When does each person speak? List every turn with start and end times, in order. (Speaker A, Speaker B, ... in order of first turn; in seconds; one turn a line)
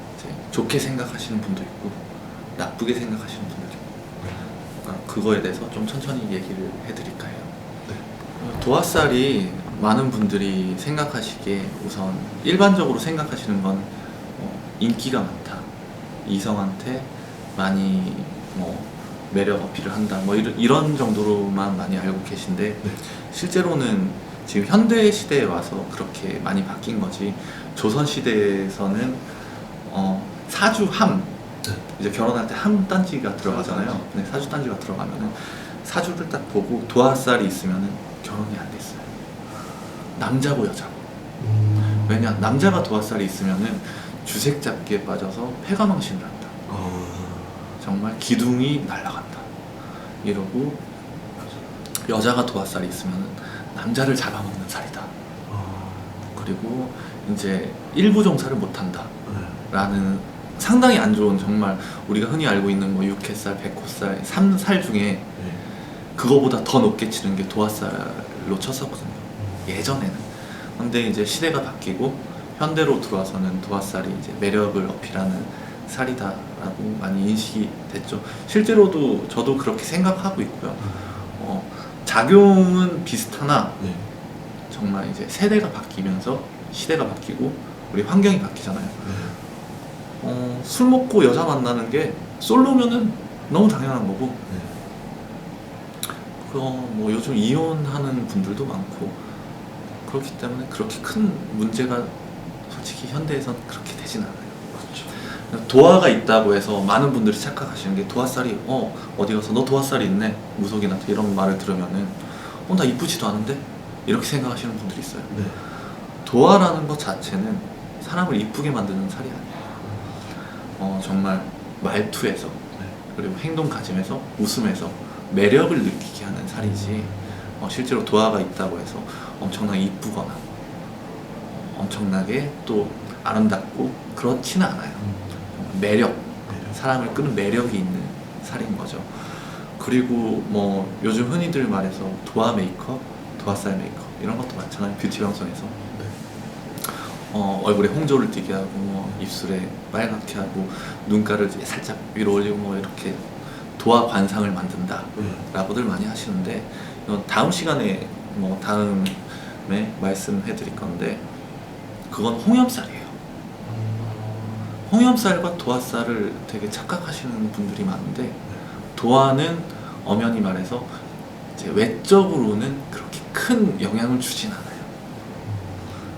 Speaker A: 0.2-2.0
Speaker A: 2.6-3.8
Speaker B: 4.2-4.5
Speaker A: 4.8-7.5
Speaker A: 8.4-15.7
Speaker A: 16.2-31.3
Speaker A: 31.9-39.1
Speaker A: 40.1-41.0
Speaker B: 41.4-42.7
Speaker A: 41.8-46.5
Speaker B: 46.7-47.7
Speaker A: 47.8-49.5
Speaker A: 50.2-50.8
Speaker A: 52.0-55.1
Speaker B: 55.5-56.3
Speaker A: 56.3-59.1
Speaker B: 59.3-59.6
Speaker A: 59.7-65.3
Speaker A: 66.2-83.8
Speaker B: 69.4-69.7
Speaker B: 80.8-81.3
Speaker A: 84.7-89.3
Speaker B: 89.0-89.3
Speaker A: 90.2-94.4
Speaker B: 94.5-94.8
Speaker A: 96.4-99.2
Speaker A: 100.0-102.1
Speaker A: 102.7-119.7
Speaker B: 104.8-105.1
Speaker B: 115.3-115.6
Speaker B: 119.8-120.1
Speaker A: 120.8-130.4
Speaker B: 126.6-127.2
Speaker A: 131.5-145.8
Speaker B: 135.0-135.5
Speaker B: 136.5-136.8
Speaker A: 146.8-161.2
Speaker B: 155.2-155.4
Speaker A: 162.1-163.1
Speaker B: 163.7-164.6
Speaker A: 164.9-170.9
Speaker A: 171.6-174.9
Speaker B: 175.5-176.0